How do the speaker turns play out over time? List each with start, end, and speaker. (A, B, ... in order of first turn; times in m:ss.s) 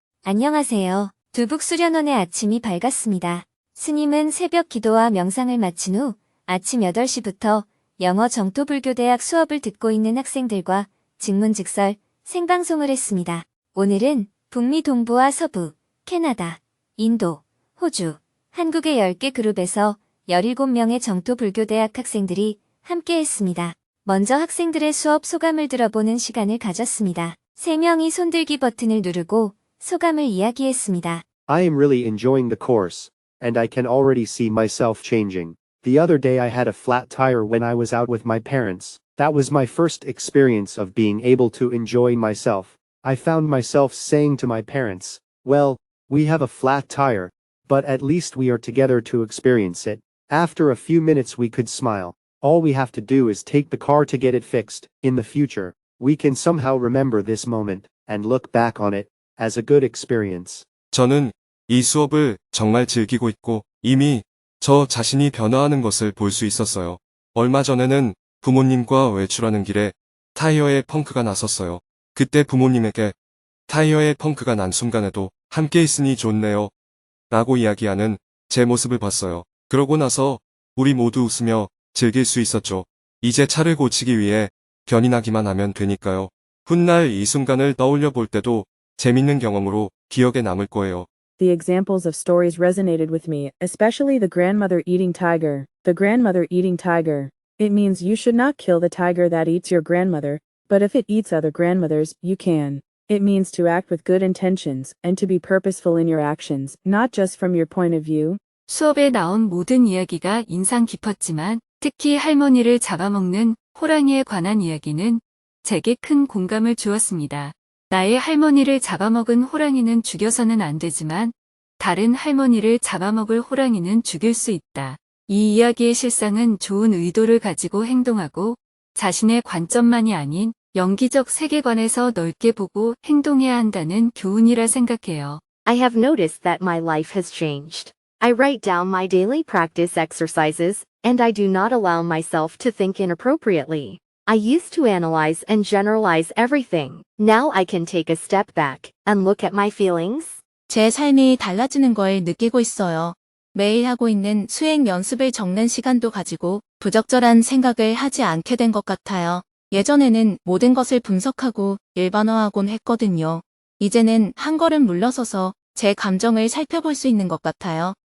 0:00.2-0:31.2 A
0:31.5-1:00.6 B
1:00.9-1:13.1 C
1:13.7-1:16.7 C
1:17.3-1:31.1 C
1:31.4-1:48.4 D
1:48.7-2:15.4 E
2:15.6-2:30.4 F
2:30.7-2:48.0 G